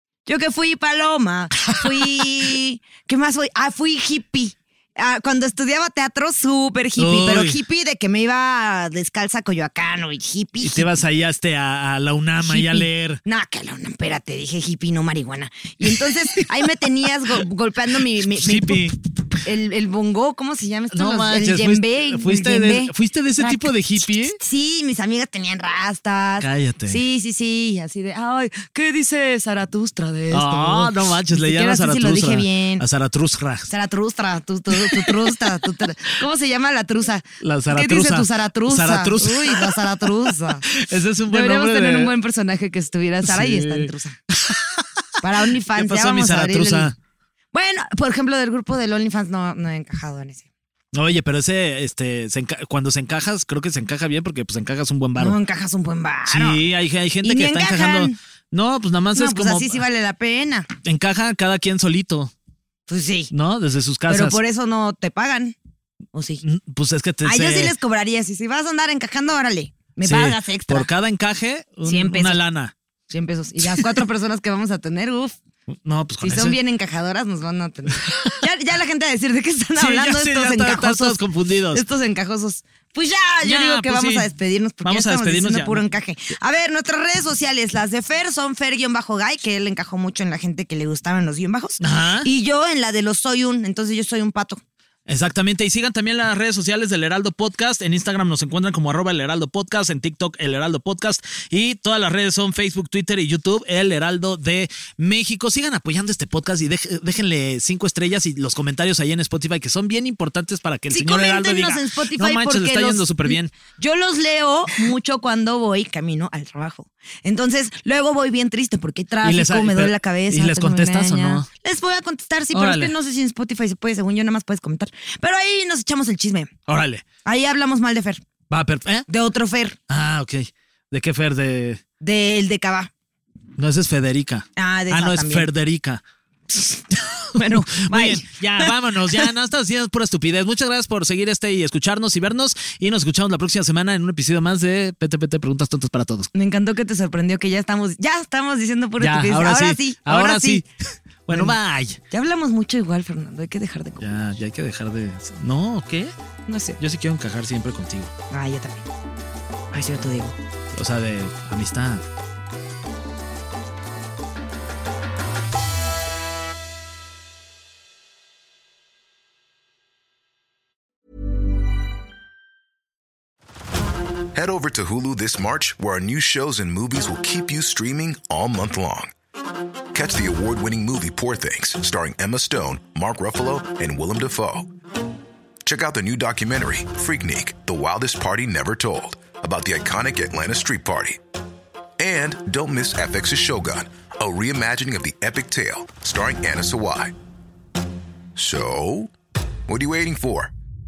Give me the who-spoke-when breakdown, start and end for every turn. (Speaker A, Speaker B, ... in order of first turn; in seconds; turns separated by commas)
Speaker A: 0.2-10.9, Speaker B: 7.0-7.6, Speaker B: 10.6-13.2, Speaker A: 12.4-32.8, Speaker B: 18.2-19.0, Speaker B: 20.9-24.4, Speaker B: 26.4-27.0, Speaker B: 30.3-33.7, Speaker A: 33.7-40.7, Speaker B: 34.7-35.3, Speaker B: 37.4-40.0, Speaker B: 40.7-42.1, Speaker A: 41.3-44.2, Speaker B: 43.2-44.9, Speaker A: 45.2-46.9, Speaker B: 45.6-47.0, Speaker A: 47.5-50.4, Speaker B: 50.9-55.4, Speaker A: 55.2-56.6, Speaker B: 56.3-59.8, Speaker A: 57.2-58.1, Speaker A: 59.1-60.7, Speaker B: 60.8-62.3, Speaker A: 62.9-63.3, Speaker B: 63.3-64.4, Speaker A: 64.1-65.5, Speaker A: 66.1-66.4, Speaker B: 66.4-67.7, Speaker A: 67.2-70.9, Speaker B: 70.0-72.7, Speaker A: 71.8-72.4, Speaker A: 73.1-75.4, Speaker B: 73.7-74.0, Speaker B: 75.7-76.6, Speaker A: 76.2-81.2, Speaker B: 78.0-78.4, Speaker B: 79.8-81.8, Speaker A: 81.7-94.6, Speaker B: 83.4-84.3, Speaker B: 84.8-85.8, Speaker B: 91.8-92.3, Speaker B: 95.1-113.5, Speaker A: 110.9-126.5, Speaker B: 119.2-121.5, Speaker B: 122.5-122.9, Speaker B: 126.7-127.0, Speaker A: 127.2-128.2, Speaker B: 128.5-129.1, Speaker A: 129.1-129.8, Speaker B: 129.9-131.8, Speaker A: 132.0-132.9, Speaker B: 133.6-136.0, Speaker A: 134.6-135.5, Speaker B: 136.9-146.3, Speaker A: 137.3-139.2, Speaker A: 146.3-150.7, Speaker B: 149.0-150.7, Speaker B: 151.3-152.0, Speaker A: 151.3-151.6, Speaker A: 152.1-154.1, Speaker B: 154.0-156.1, Speaker A: 156.5-156.8, Speaker B: 156.8-158.1, Speaker A: 158.3-158.9, Speaker A: 159.7-160.3, Speaker B: 160.7-162.0, Speaker C: 174.3-179.1, Speaker C: 179.9-184.7, Speaker C: 185.6-191.2, Speaker C: 192.0-197.1, Speaker C: 198.3-199.1, Speaker C: 199.7-200.5